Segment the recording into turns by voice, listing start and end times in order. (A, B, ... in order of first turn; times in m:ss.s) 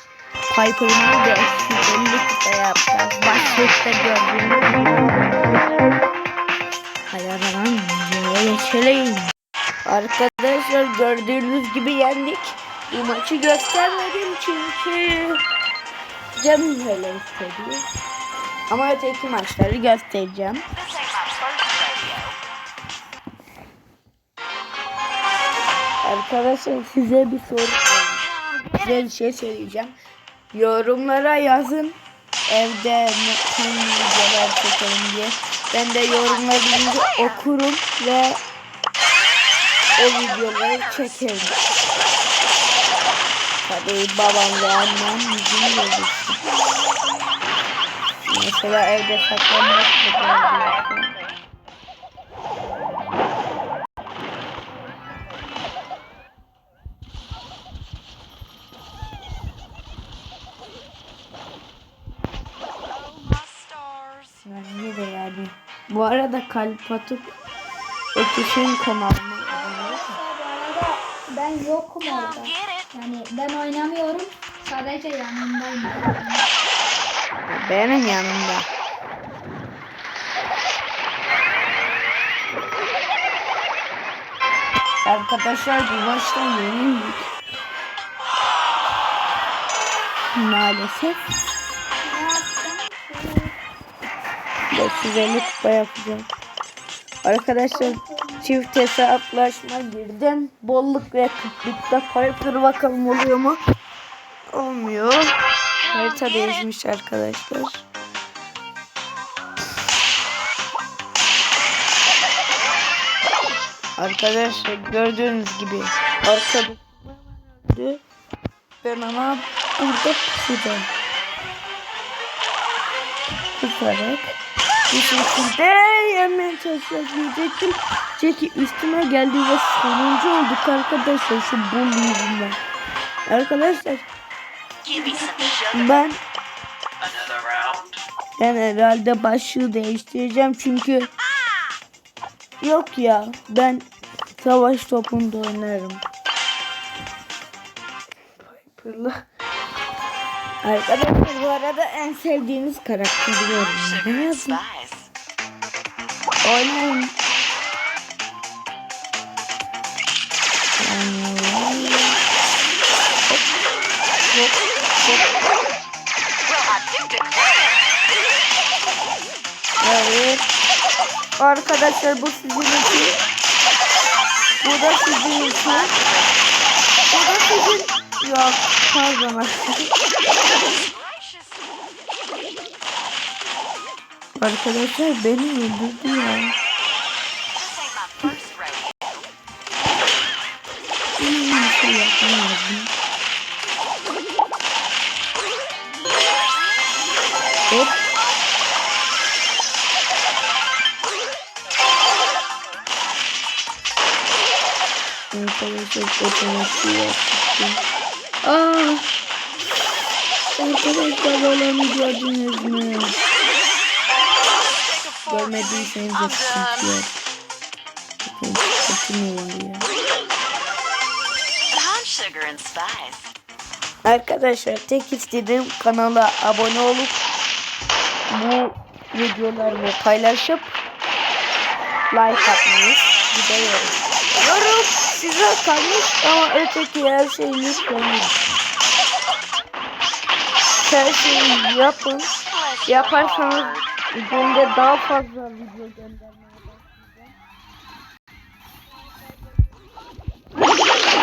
0:00.5-0:05.9 A
0:07.1-0:09.3 A
0:09.8-0:15.4 A
0:16.4-0:17.8 A
0:18.7-0:20.6 A
0:20.9-0:22.3 B
0:26.0-0:28.3 A
0:28.8-0:29.9 A
0:30.5-0:38.4 A
0:40.0-0:41.6 A
0:43.6-0:46.4 A
0:48.3-0:51.2 A
1:03.2-1:04.2 B
1:04.4-1:07.3 A
1:08.1-1:10.2 A
1:09.5-1:16.5 C
1:17.5-1:18.6 A
1:25.0-1:27.3 A
1:30.3-1:31.2 A
1:32.0-1:33.6 C
1:34.7-1:36.3 A
1:37.2-1:43.6 A
1:37.7-1:38.5 C
1:44.5-1:47.8 A
1:54.0-1:58.0 A
1:58.8-2:00.9 A
2:03.6-2:04.4 A
2:04.9-2:12.6 A
2:13.3-2:14.1 A
2:14.8-2:15.6 C
2:15.7-2:16.2 A
2:18.4-2:21.1 A
2:22.6-2:26.0 A
2:28.4-2:29.1 A
2:30.6-2:34.6 A
2:34.6-2:35.0 B
2:36.4-2:37.2 A
2:40.8-2:42.2 A
2:44.3-2:45.3 A
2:46.5-2:47.6 B
2:49.8-2:50.5 A
2:51.4-2:53.2 A
2:54.6-2:55.9 A
2:57.1-2:59.9 A
3:04.4-3:06.5 A
3:07.8-3:08.8 B
3:11.2-3:12.9 A
3:17.7-3:18.0 A
3:25.3-3:27.8 A
3:28.4-3:29.1 A
3:30.5-3:33.2 A
3:35.2-3:37.2 A
3:38.2-3:39.9 A
3:41.7-3:43.3 B
3:44.0-3:47.2 A
3:48.3-3:50.7 A
3:52.1-3:58.4 A
4:00.8-4:02.3 A
4:02.8-4:07.3 A